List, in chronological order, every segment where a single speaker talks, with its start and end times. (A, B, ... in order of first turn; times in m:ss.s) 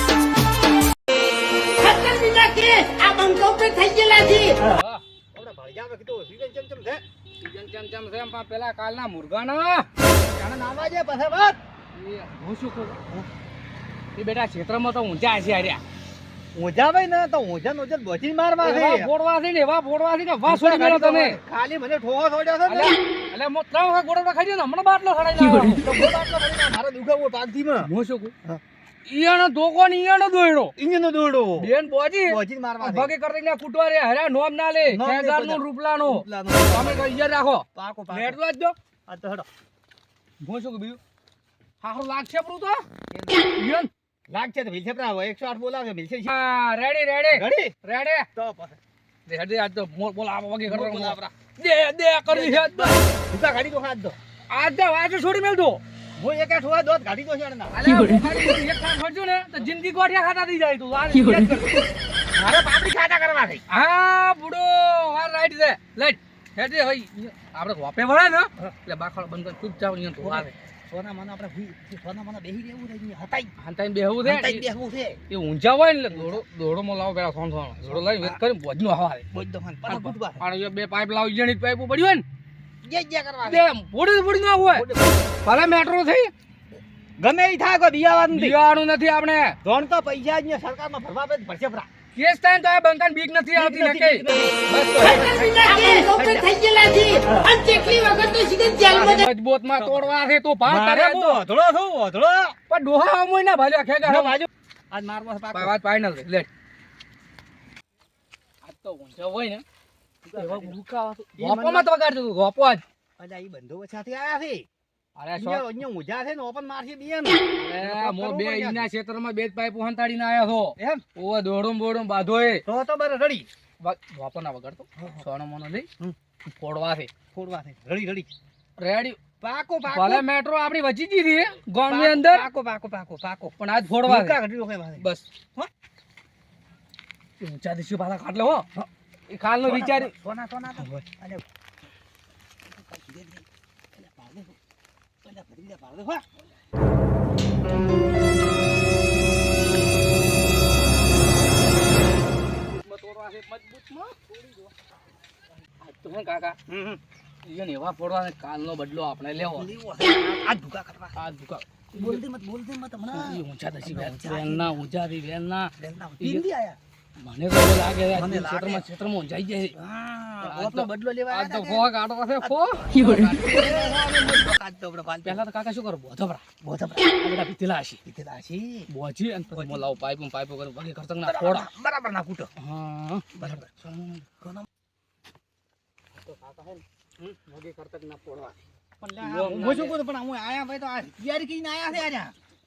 0:01.8-0:04.6 A
0:04.6-0:05.0 B
0:05.3-0:07.0 C
0:07.4-0:09.9 B
0:10.4-0:11.6 C
0:11.9-0:13.0 B
0:14.2-0:15.8 B
0:16.5-0:19.1 C
0:18.6-0:21.4 B
0:20.4-0:22.9 C
0:22.6-0:25.8 B
0:25.8-0:27.9 C
0:27.8-0:28.3 B
0:29.0-0:30.8 B
0:30.8-0:31.7 C
0:31.6-0:38.7 B
0:32.3-0:33.1 C
0:34.8-0:37.2 C
0:37.7-0:38.4 C
0:39.1-0:39.4 C
0:40.4-0:41.0 B
0:41.8-0:42.8 B
0:43.4-0:43.9 B
0:44.3-0:46.3 C
0:46.2-0:48.3 B
0:47.3-0:47.7 C
0:48.4-0:48.8 C
0:49.3-0:53.0 B
0:50.6-0:51.2 C
0:52.3-0:54.2 C
0:54.5-0:55.8 B
0:56.2-0:57.8 C
0:57.7-1:01.8 B
1:02.3-1:03.6 C
1:03.7-1:10.5 B
1:10.2-1:13.5 C
1:13.6-1:14.7 B
1:14.2-1:15.2 C
1:15.3-1:19.2 B
1:16.1-1:16.4 C
1:17.8-1:18.4 C
1:19.3-1:20.4 C
1:19.8-1:22.2 B
1:22.8-1:23.6 C
1:23.4-1:26.3 B
1:24.7-1:25.2 C
1:27.2-1:28.6 C
1:28.3-1:29.6 B
1:29.6-1:31.9 C
1:32.1-1:35.5 B
1:33.5-1:36.6 C
1:35.2-1:39.2 A
1:37.2-1:37.5 C
1:38.8-1:41.4 B
1:39.8-1:40.0 C
1:40.6-1:42.6 C
1:42.7-1:44.4 B
1:44.0-1:45.7 C
1:45.5-1:46.5 B
1:48.6-1:49.6 B
1:50.2-1:50.8 C
1:50.4-1:52.8 B
1:51.4-1:51.9 C
1:53.2-1:54.6 C
1:55.2-1:55.7 B
1:55.3-1:58.9 C
1:57.6-2:02.6 B
2:00.8-2:01.0 C
2:02.6-2:03.5 C
2:03.8-2:05.9 B
2:06.4-2:07.1 B
2:07.3-2:08.3 C
2:08.8-2:09.2 B
2:09.4-2:10.2 C
2:09.9-2:12.5 B
2:11.8-2:15.0 C
2:13.4-2:14.4 B
2:15.0-2:15.3 B
2:17.4-2:18.7 B
2:19.3-2:20.1 B
2:19.6-2:21.4 C
2:22.6-2:24.6 C
2:25.2-2:26.2 C
2:32.3-2:34.7 B
2:35.6-2:36.6 B
2:36.7-2:37.0 C
2:37.4-2:39.7 B
2:39.5-2:41.2 C
2:41.2-2:42.2 B
2:41.9-2:44.8 C
2:43.1-2:46.5 B
2:45.8-2:46.8 C
2:47.2-2:49.8 B
2:48.1-2:48.8 C
2:49.8-2:51.9 C
2:50.4-2:54.5 B
2:52.4-2:55.4 C
2:55.2-2:56.4 B
2:56.6-2:57.2 C
2:57.2-2:58.0 B
2:58.0-2:58.8 C
2:58.9-3:01.7 B
3:01.2-3:02.5 C
3:02.6-3:04.1 B
3:03.4-3:04.6 C
3:06.1-3:08.6 B
3:09.0-3:12.3 C
3:09.2-3:10.0 B